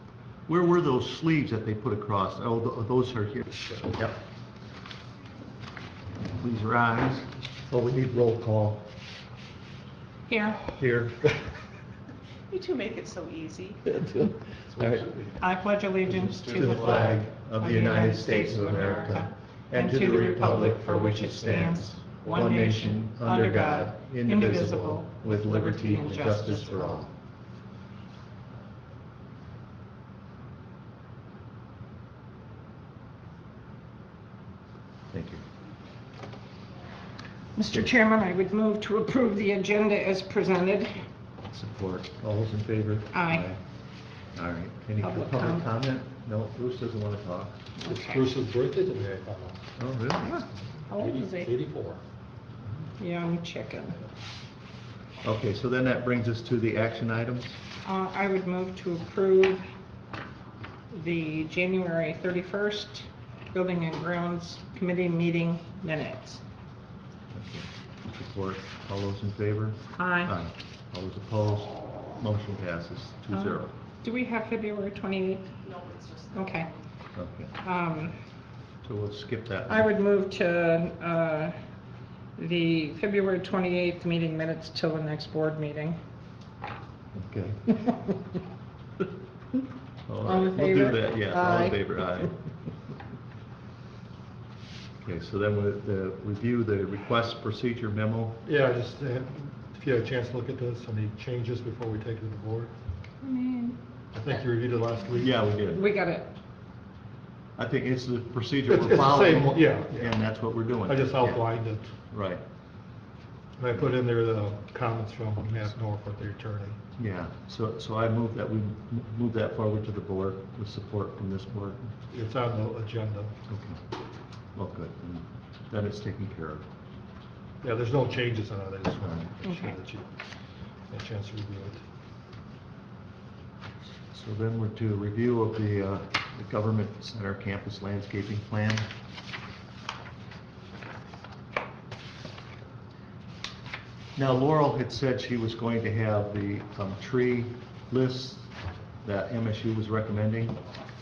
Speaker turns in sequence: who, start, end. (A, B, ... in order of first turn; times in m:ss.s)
0:00.5-0:04.2 A
0:06.4-0:08.9 A
0:10.3-0:10.6 B
0:10.8-0:11.2 A
0:12.5-0:13.8 C
0:13.9-0:15.3 A
0:15.4-0:27.1 B
0:16.3-0:16.7 C
0:16.5-0:27.1 A
0:35.1-0:35.4 A
0:37.5-0:41.0 B
0:41.5-0:43.6 A
0:43.1-0:43.5 B
0:44.3-0:47.6 A
0:45.0-0:45.7 B
0:47.8-0:48.2 B
0:47.9-0:49.6 D
0:49.8-0:50.4 A
0:50.2-0:51.5 B
0:50.9-0:52.0 D
0:53.0-0:54.0 B
0:55.2-0:57.6 A
0:57.8-0:59.6 B
1:00.9-1:06.4 B
1:07.3-1:13.7 A
1:10.0-1:10.3 B
1:13.3-1:16.7 B
1:16.2-1:16.6 C
1:17.1-1:17.5 A
1:17.6-1:18.2 B
1:18.8-1:19.9 A
1:19.7-1:21.5 B
1:22.4-1:26.0 B
1:27.1-1:27.8 A
1:30.1-1:32.4 A
1:30.2-1:32.0 B
1:35.0-1:38.4 A
1:38.4-1:42.7 D
1:43.2-1:43.8 B
1:44.1-1:45.4 D
1:45.2-1:45.8 A
1:45.6-1:46.3 B
1:47.6-1:51.4 A
1:48.7-1:50.2 D
1:50.9-1:51.9 D
1:52.1-1:52.4 A
1:53.6-1:56.8 D
1:57.0-2:01.9 A
2:02.1-2:03.3 D
2:03.5-2:03.8 A
2:04.6-2:06.6 A
2:07.6-2:10.1 D
2:09.0-2:09.3 A
2:09.4-2:09.7 B
2:10.9-2:11.8 D
2:14.1-2:18.9 A
2:24.2-2:28.5 A
2:29.0-2:30.6 A